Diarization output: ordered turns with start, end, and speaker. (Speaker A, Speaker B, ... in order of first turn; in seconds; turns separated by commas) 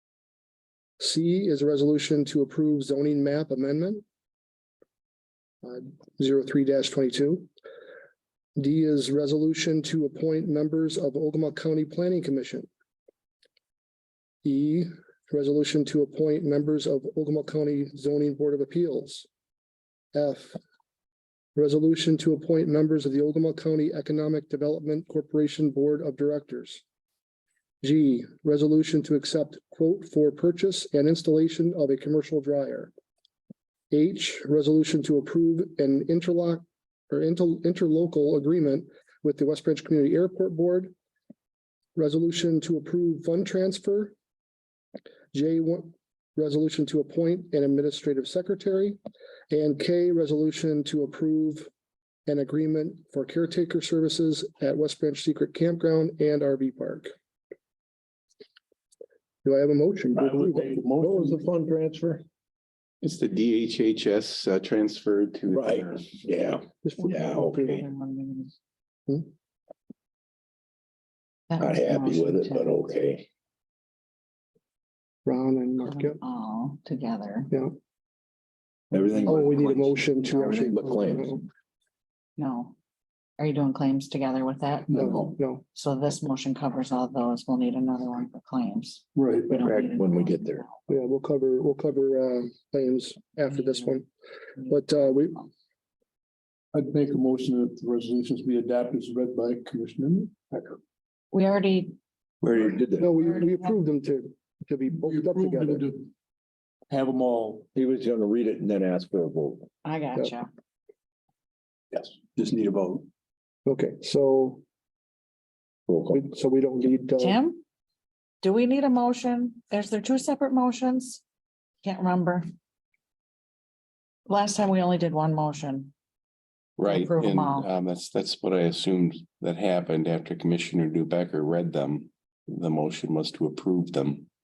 Speaker A: 1.0-4.0, Speaker A: 5.6-7.5, Speaker A: 8.6-12.7, Speaker A: 14.4-19.3, Speaker A: 20.1-20.6, Speaker A: 21.6-26.8, Speaker A: 27.8-32.9, Speaker A: 33.9-40.9, Speaker A: 42.0-44.1, Speaker A: 45.3-49.0, Speaker A: 49.5-51.7, Speaker A: 52.3-57.1, Speaker A: 59.4-60.8, Speaker B: 60.1-61.4, Speaker C: 61.0-62.2, Speaker D: 63.0-66.2, Speaker C: 65.5-67.9, Speaker A: 66.8-67.6, Speaker E: 67.1-68.5, Speaker E: 71.5-72.8, Speaker C: 71.6-73.3, Speaker A: 75.3-76.2, Speaker E: 75.8-77.5, Speaker C: 78.9-81.4, Speaker E: 79.2-79.8, Speaker A: 79.3-81.5, Speaker E: 82.4-82.8, Speaker E: 83.4-90.8, Speaker B: 84.9-85.2, Speaker A: 84.9-85.6, Speaker B: 89.2-89.7, Speaker C: 89.9-90.7, Speaker A: 90.9-94.1, Speaker A: 94.7-95.5, Speaker B: 96.7-100.8, Speaker E: 101.3-102.0, Speaker C: 102.4-103.1, Speaker A: 103.0-105.9, Speaker B: 105.1-106.1, Speaker B: 106.9-107.7, Speaker C: 107.8-109.7, Speaker E: 109.8-110.5, Speaker B: 112.2-113.1, Speaker A: 113.7-114.6, Speaker C: 115.9-116.2, Speaker A: 116.1-117.4, Speaker E: 117.2-117.6, Speaker E: 118.4-121.2, Speaker E: 121.8-122.5, Speaker E: 124.3-125.9, Speaker D: 126.8-134.3, Speaker E: 126.8-127.7